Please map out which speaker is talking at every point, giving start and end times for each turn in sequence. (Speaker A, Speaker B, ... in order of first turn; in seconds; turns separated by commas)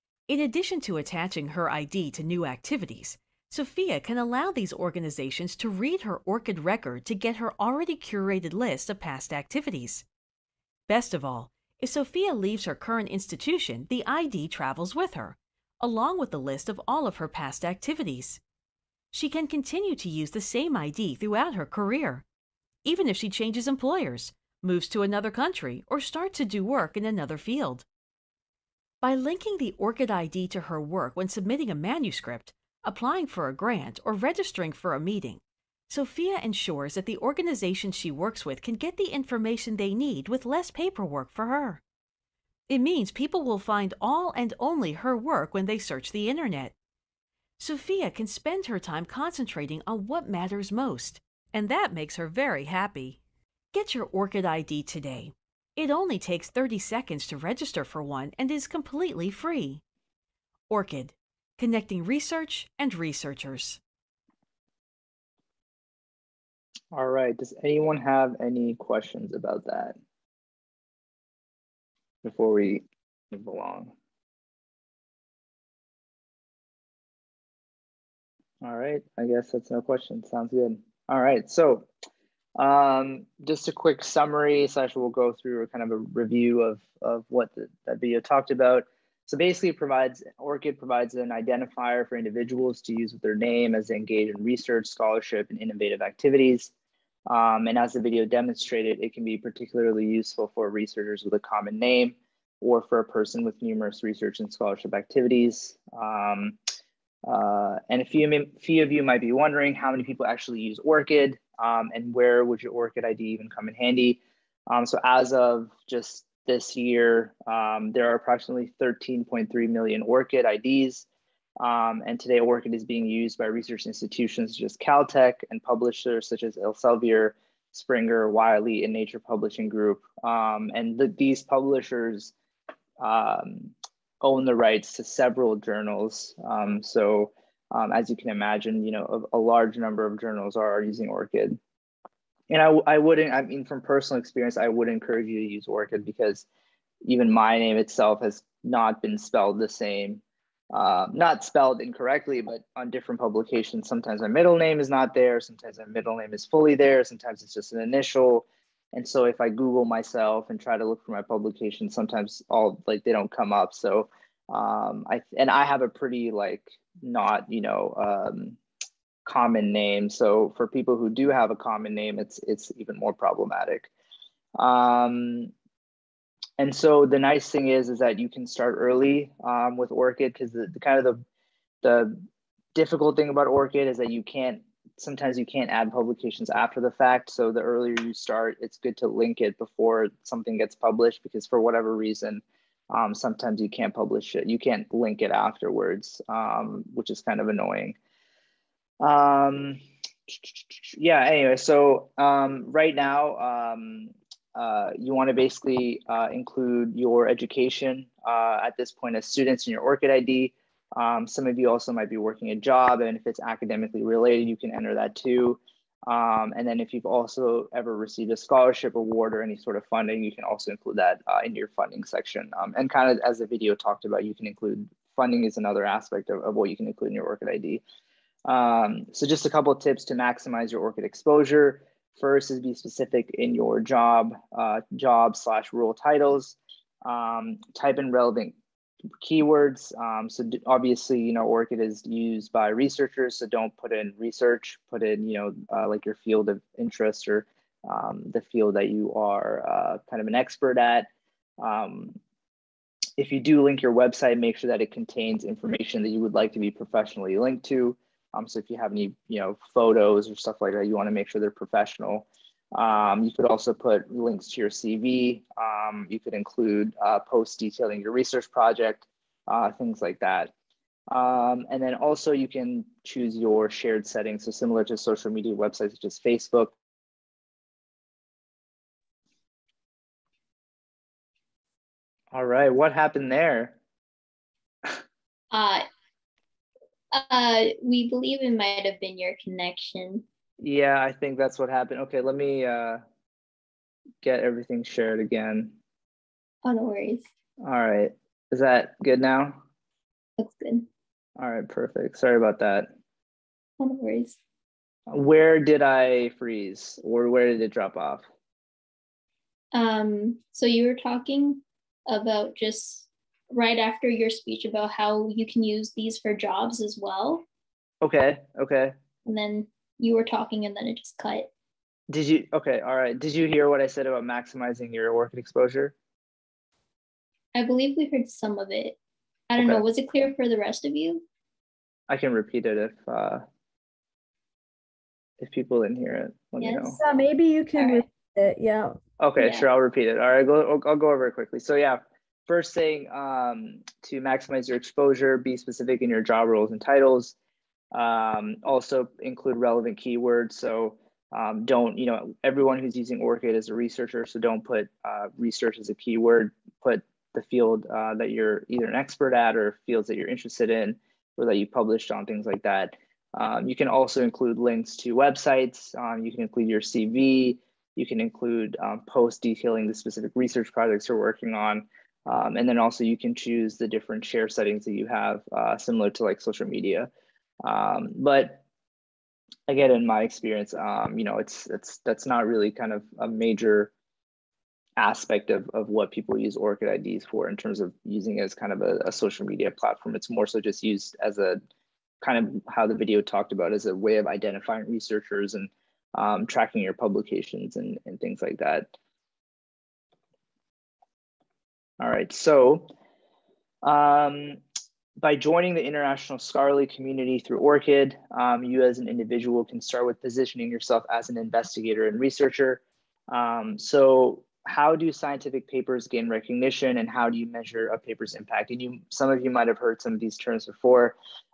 Speaker A: 0.3-10.0, Speaker A: 10.9-18.4, Speaker A: 19.1-22.2, Speaker A: 22.8-27.8, Speaker A: 29.0-41.8, Speaker A: 42.7-46.7, Speaker A: 47.6-53.2, Speaker A: 53.7-59.8, Speaker A: 60.7-63.8, Speaker B: 66.9-70.0, Speaker B: 72.2-73.9, Speaker B: 78.6-81.9, Speaker B: 82.6-96.7, Speaker B: 97.3-106.6, Speaker B: 107.2-121.0, Speaker B: 121.6-132.3, Speaker B: 133.0-141.6, Speaker B: 142.5-146.4, Speaker B: 147.0-168.6, Speaker B: 169.2-173.9, Speaker B: 174.6-175.5, Speaker B: 176.6-181.2, Speaker B: 181.8-182.2, Speaker B: 182.7-198.0, Speaker B: 199.0-227.8, Speaker B: 228.4-238.6, Speaker B: 239.2-251.1, Speaker B: 251.6-252.2, Speaker B: 253.2-270.5, Speaker B: 271.1-276.7, Speaker B: 282.3-283.8, Speaker C: 285.5-285.9, Speaker C: 287.1-290.2, Speaker B: 290.6-293.0, Speaker B: 294.2-295.8, Speaker C: 296.6-297.3, Speaker B: 297.6-299.6, Speaker C: 300.4-300.9, Speaker B: 301.4-302.9, Speaker C: 303.8-304.4, Speaker B: 305.1-308.2, Speaker C: 309.7-317.4, Speaker B: 318.0-318.9, Speaker C: 319.2-321.5, Speaker B: 322.1-325.9, Speaker C: 327.5-329.0, Speaker C: 329.5-331.2, Speaker B: 329.6-329.8, Speaker B: 332.1-333.4, Speaker B: 335.4-337.0, Speaker C: 336.6-337.0, Speaker D: 337.0-339.0, Speaker C: 337.8-338.0, Speaker B: 339.2-347.3, Speaker C: 339.4-339.6, Speaker B: 347.9-377.1, Speaker B: 377.6-378.6, Speaker B: 379.7-383.9, Speaker B: 385.0-391.6, Speaker B: 392.2-398.9, Speaker B: 402.0-402.9, Speaker B: 403.8-404.6, Speaker B: 405.2-421.1